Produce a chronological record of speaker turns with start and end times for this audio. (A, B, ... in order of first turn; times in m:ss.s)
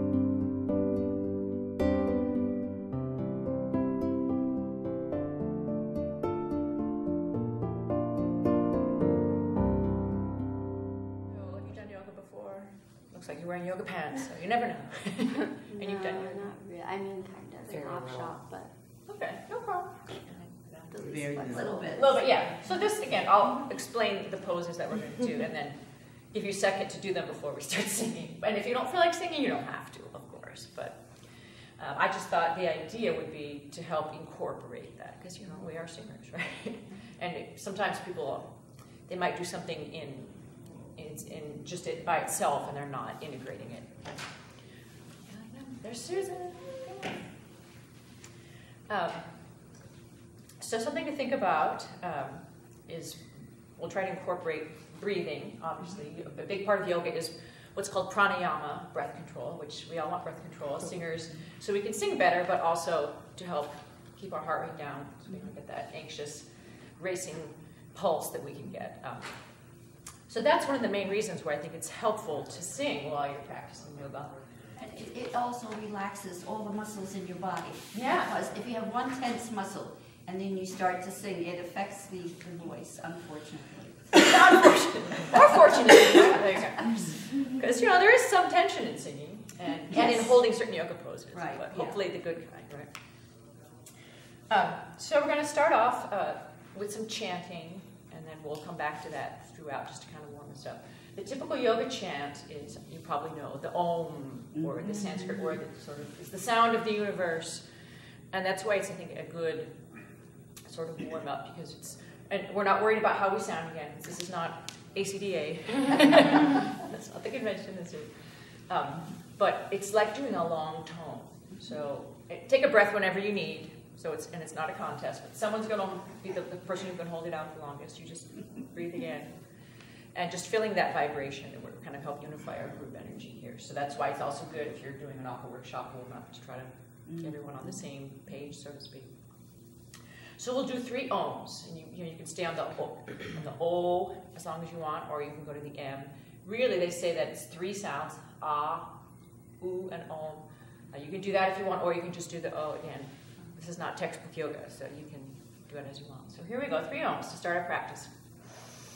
0:11.3-0:16.5 A
0:15.7-0:18.7 B
0:19.1-0:21.0 A
0:20.9-0:22.0 B
0:21.0-0:22.2 C
0:21.9-0:44.6 A
0:45.2-0:47.2 A
0:48.9-0:49.7 A
0:50.6-1:14.4 A
1:14.8-1:24.4 C
1:17.9-1:18.3 A
1:24.2-1:32.9 A
1:29.9-1:30.3 C
1:31.3-1:32.0 C
1:34.5-2:19.6 A
2:20.4-2:28.9 A
2:29.6-2:38.6 A